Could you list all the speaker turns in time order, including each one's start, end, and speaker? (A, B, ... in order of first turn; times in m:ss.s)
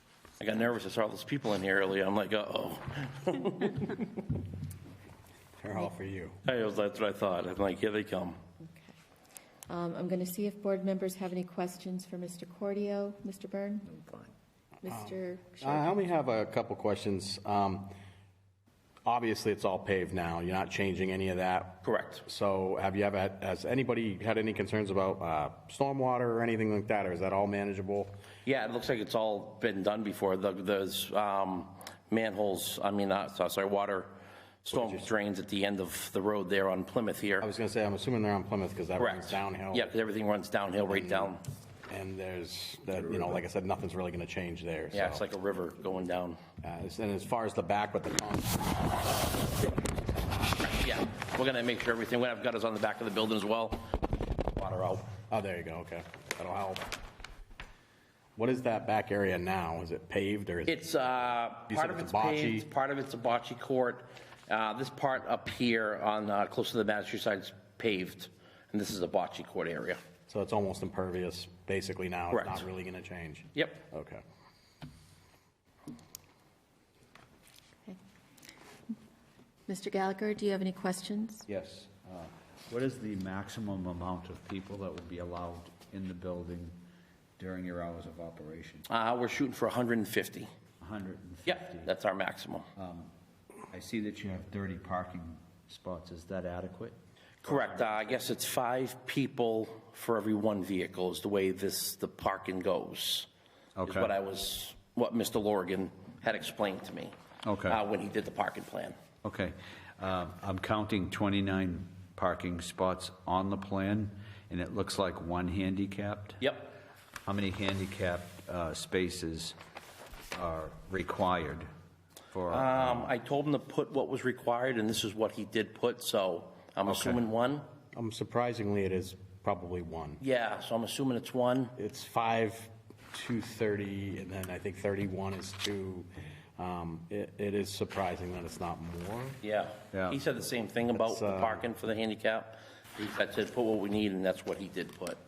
0:00.4-0:04.2 A
0:05.6-0:06.4 B
0:06.4-0:08.4 A
0:08.6-0:08.9 C
0:09.7-0:14.0 C
0:14.8-0:16.0 C
0:15.6-0:17.9 B
0:19.0-0:28.2 B
0:21.8-0:22.2 A
0:28.4-0:37.5 A
0:34.7-0:35.1 B
0:37.4-0:39.9 B
0:39.0-0:41.4 A
0:40.9-0:41.4 B
0:41.9-0:45.2 B
0:44.9-0:46.4 A
0:46.6-0:49.0 B
0:50.6-0:54.0 A
0:54.5-0:55.1 A
0:55.3-0:56.9 B
0:58.4-1:00.8 B
1:00.7-1:10.0 A
1:01.7-1:02.7 B
1:10.3-1:14.2 B
1:12.3-1:12.6 A
1:13.6-1:13.8 A
1:19.7-1:21.5 C
1:21.5-1:26.8 D
1:27.4-1:28.8 D
1:28.9-1:30.5 A
1:30.8-1:31.9 D
1:31.5-1:32.7 A
1:32.8-1:33.1 D
1:33.7-1:37.0 D
1:37.4-1:43.3 A
1:37.5-1:38.2 D
1:43.8-1:44.1 D
1:43.8-1:47.2 A
1:47.4-1:47.8 D
1:47.7-1:49.0 A
1:49.2-1:56.4 D
1:56.4-1:56.7 A
1:57.3-1:59.6 D
2:00.3-2:01.7 D
2:02.3-2:03.1 D
2:02.5-2:07.7 A
2:06.9-2:07.2 D
2:07.9-2:10.2 B
2:10.2-2:11.7 A
2:11.8-2:19.4 B
2:19.4-2:25.2 A
2:19.9-2:20.2 D
2:21.0-2:21.6 B